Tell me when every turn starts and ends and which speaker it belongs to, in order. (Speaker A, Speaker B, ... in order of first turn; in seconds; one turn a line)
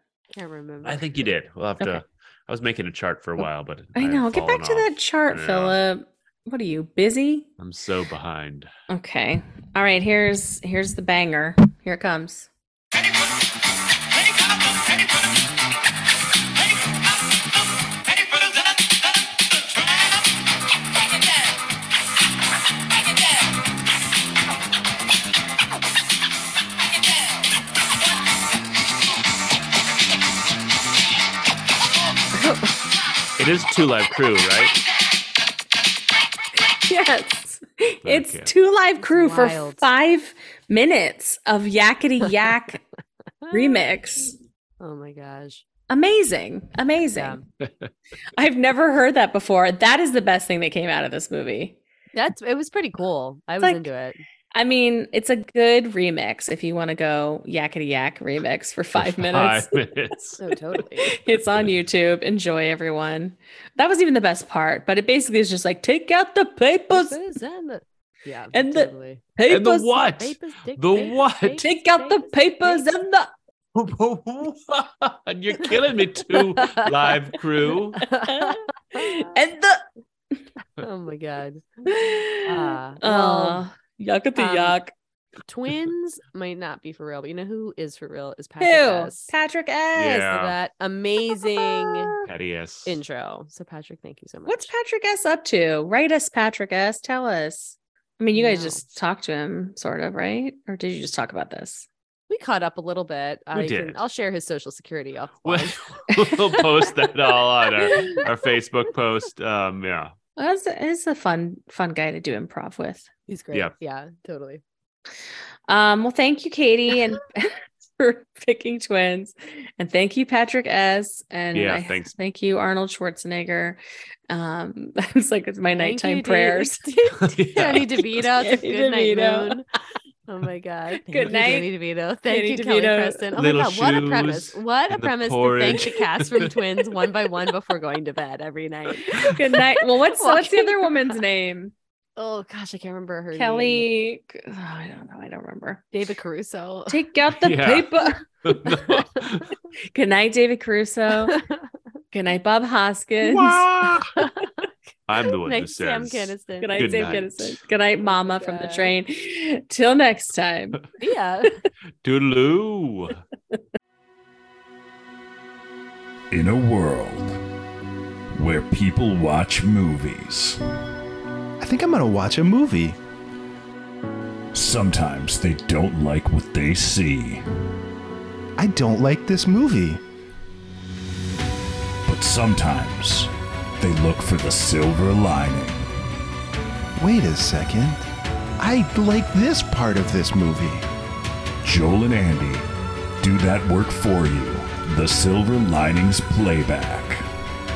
Speaker A: 0.3-1.0
Speaker B: 0.8-5.8
Speaker C: 4.0-7.5
Speaker B: 7.6-8.7
Speaker C: 8.9-12.5
Speaker C: 32.4-32.7
Speaker B: 33.4-34.8
Speaker C: 36.6-42.8
Speaker B: 38.0-38.5
Speaker A: 39.0-39.9
Speaker A: 43.4-43.9
Speaker C: 43.5-44.3
Speaker A: 44.8-45.6
Speaker C: 45.9-47.4
Speaker A: 47.1-47.4
Speaker B: 47.6-47.9
Speaker C: 48.4-51.8
Speaker A: 52.1-54.2
Speaker C: 53.6-53.9
Speaker C: 54.5-59.7
Speaker B: 58.9-60.5
Speaker A: 60.4-61.1
Speaker C: 61.1-67.2
Speaker A: 66.9-69.2
Speaker C: 68.5-70.0
Speaker B: 69.5-71.6
Speaker A: 70.2-73.0
Speaker C: 71.6-73.3
Speaker B: 73.7-78.0
Speaker A: 76.3-77.1
Speaker A: 77.9-79.3
Speaker C: 78.3-79.8
Speaker A: 80.8-83.6
Speaker C: 81.9-84.9
Speaker A: 84.3-84.8
Speaker A: 85.5-89.3
Speaker C: 88.6-90.3
Speaker B: 89.9-90.5
Speaker A: 90.2-92.1
Speaker C: 91.2-92.2
Speaker B: 92.2-93.0
Speaker A: 92.8-94.7
Speaker C: 94.5-101.8
Speaker A: 98.3-98.9
Speaker A: 102.3-106.0
Speaker B: 103.5-104.0
Speaker B: 105.4-110.1
Speaker C: 106.2-106.6
Speaker C: 107.8-108.2
Speaker A: 107.9-108.2
Speaker C: 110.4-113.1
Speaker A: 113.3-114.6
Speaker C: 115.7-126.8
Speaker B: 121.5-122.1
Speaker A: 125.7-129.6
Speaker B: 127.2-128.0
Speaker C: 128.2-129.6
Speaker A: 130.3-141.2
Speaker C: 131.0-131.7
Speaker C: 132.3-133.2
Speaker B: 133.4-136.5
Speaker C: 139.1-141.7
Speaker A: 142.2-143.8
Speaker C: 143.3-145.8
Speaker A: 145.9-147.0
Speaker C: 146.9-148.2
Speaker B: 147.4-149.5
Speaker A: 148.7-149.2
Speaker C: 149.9-151.4
Speaker A: 151.2-151.7
Speaker C: 152.1-153.7
Speaker B: 153.2-154.1
Speaker A: 154.2-154.7
Speaker B: 155.1-157.6
Speaker A: 155.2-157.3
Speaker C: 156.6-160.8
Speaker A: 158.0-158.9
Speaker A: 161.0-161.5
Speaker B: 162.0-163.2
Speaker D: 166.3-167.4
Speaker D: 168.3-170.6
Speaker E: 171.6-173.0
Speaker D: 174.5-177.4
Speaker E: 178.6-180.0
Speaker D: 182.0-185.8
Speaker E: 186.9-188.1
Speaker E: 188.6-190.8
Speaker D: 191.6-192.7
Speaker D: 193.2-197.2